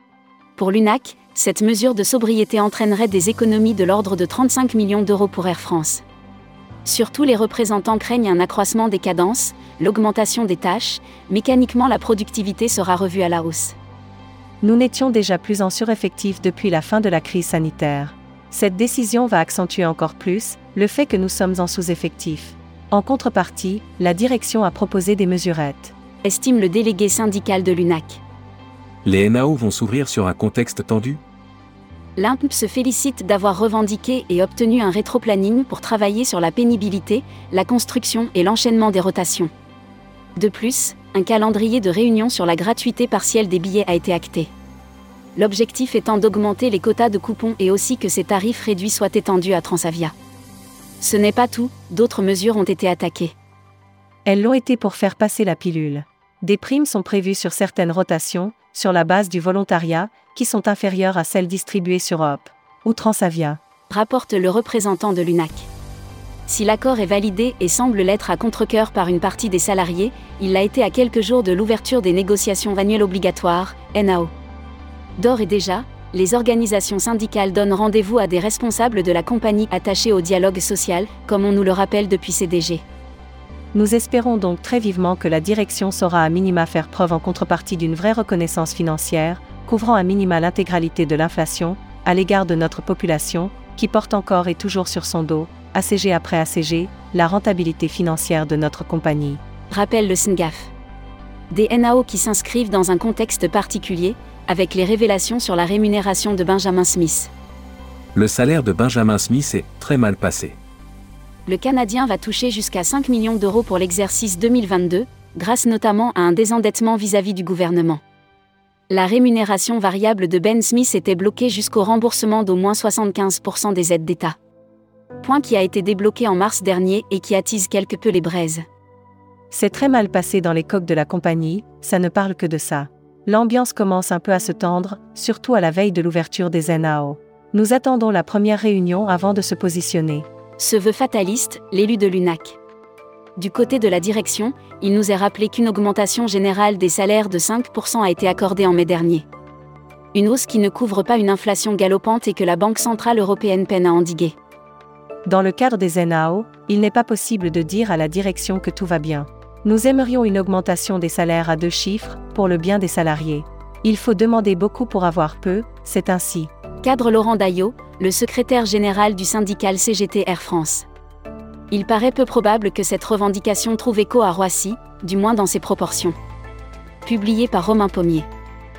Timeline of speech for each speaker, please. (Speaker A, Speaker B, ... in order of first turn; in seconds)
Speaker A: 0.6-6.0, 6.8-13.8, 26.2-28.2, 32.1-39.5, 40.4-44.5, 45.4-50.1, 51.0-53.3, 63.9-65.7, 66.5-74.3, 75.2-82.8, 99.7-100.7, 101.5-107.3, 111.5-118.0, 118.9-124.4, 125.2-128.6, 140.6-142.6, 143.3-149.2, 150.1-154.3, 166.8-170.9, 171.7-176.2, 177.0-178.3
Speaker B: 14.6-25.9, 54.2-63.6, 83.7-99.4, 129.5-140.3, 155.2-166.5
Speaker C: 29.0-31.2, 108.1-110.6